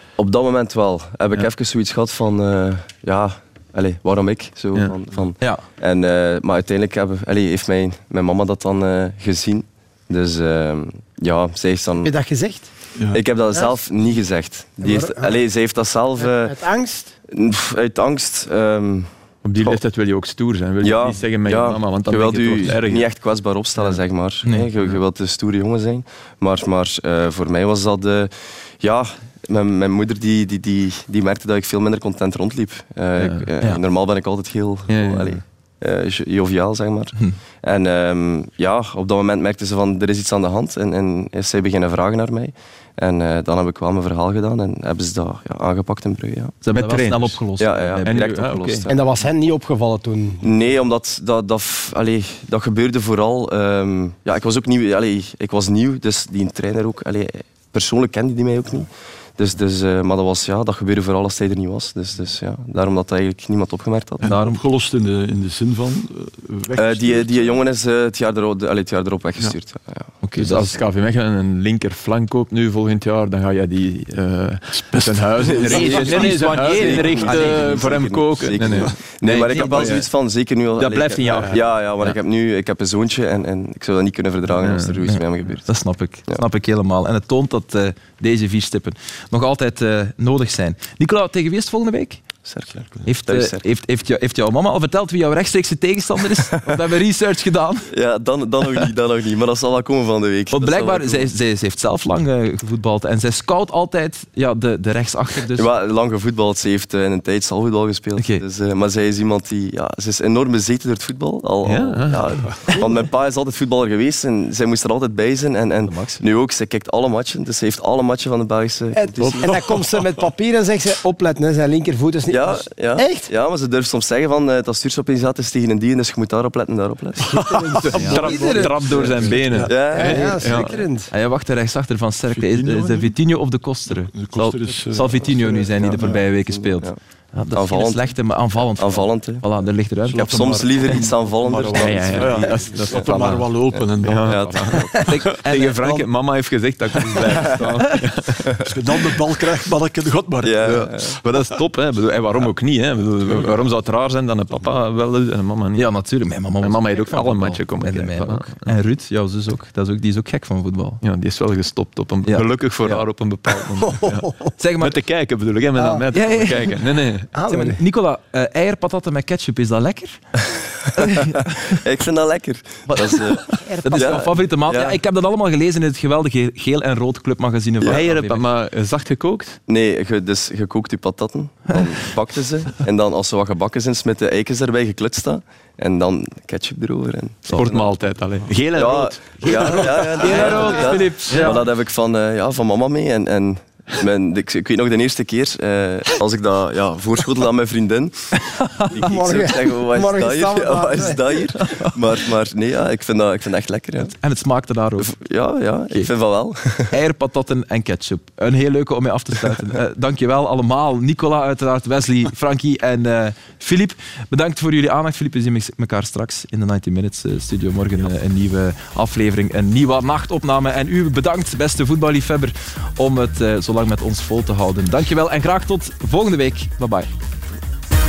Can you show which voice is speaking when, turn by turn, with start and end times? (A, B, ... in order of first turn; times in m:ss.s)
0:00.2-0:12.1 A
0:05.4-0:05.6 B
0:12.0-0:12.7 C
0:13.1-0:16.6 A
0:14.8-0:15.4 C
0:16.2-0:17.1 C
0:17.3-0:19.8 A
0:19.4-0:23.1 D
0:20.8-0:46.6 A
0:24.4-0:24.7 B
0:33.2-0:33.5 D
0:34.9-0:35.4 D
0:46.6-0:48.8 B
0:46.7-0:47.4 D
0:47.6-0:49.0 A
0:48.0-0:48.9 D
0:48.9-0:50.4 C
0:50.4-1:04.3 A
1:04.2-1:07.6 E
1:04.2-1:04.6 B
1:06.8-1:10.8 A
1:10.2-1:10.5 B
1:10.4-1:20.1 D
1:14.7-1:16.0 E
1:15.4-1:26.4 A
1:15.7-1:18.1 B
1:18.6-1:18.9 E
1:19.4-1:20.0 B
1:20.7-1:22.2 D
1:24.5-1:25.0 D
1:25.0-1:32.3 B
1:32.4-1:33.6 A
1:32.7-1:33.0 E
1:33.0-1:37.9 B
1:37.9-1:41.3 A
1:40.5-1:45.7 B
1:45.5-1:59.6 A
1:48.2-1:48.4 B
1:51.6-1:52.6 D
1:55.8-1:56.2 B
1:58.9-2:03.3 C
1:59.2-2:00.2 E
2:02.3-2:07.6 A
2:07.2-2:08.8 C
2:07.3-2:10.0 E
2:07.9-2:10.8 D
2:07.9-2:08.2 B
2:09.7-2:10.6 A
2:09.9-2:11.1 C
2:11.1-2:21.0 B
2:12.3-2:13.2 E
2:13.9-2:16.2 E
2:15.2-2:17.0 A
2:17.5-2:19.4 A
2:20.0-2:25.0 E
2:20.1-2:25.3 A
2:21.8-2:23.5 D
2:24.0-2:28.4 D
2:25.0-2:26.0 B
2:28.6-2:30.8 E
2:30.4-2:31.2 A
2:30.6-2:35.8 D
2:35.7-2:41.0 B
2:36.6-2:38.7 D
2:41.0-2:47.3 D
2:42.2-2:43.0 B
2:44.6-2:45.0 B
2:46.1-2:46.8 B
2:47.3-2:47.8 C
2:47.5-2:50.2 B
2:51.0-2:51.3 B
2:51.7-2:55.0 A
2:52.9-2:58.4 B
2:53.5-2:54.3 C
2:57.8-2:59.6 D
2:59.7-3:08.1 A
3:07.5-3:11.6 D
3:08.7-3:18.3 A
3:09.5-3:11.6 B
3:10.5-3:11.0 C
3:18.4-3:18.9 B
3:18.9-3:24.1 A
3:18.9-3:21.2 C
3:21.6-3:22.0 B
3:24.1-3:25.1 B
3:25.0-3:26.9 A
3:26.9-3:47.1 B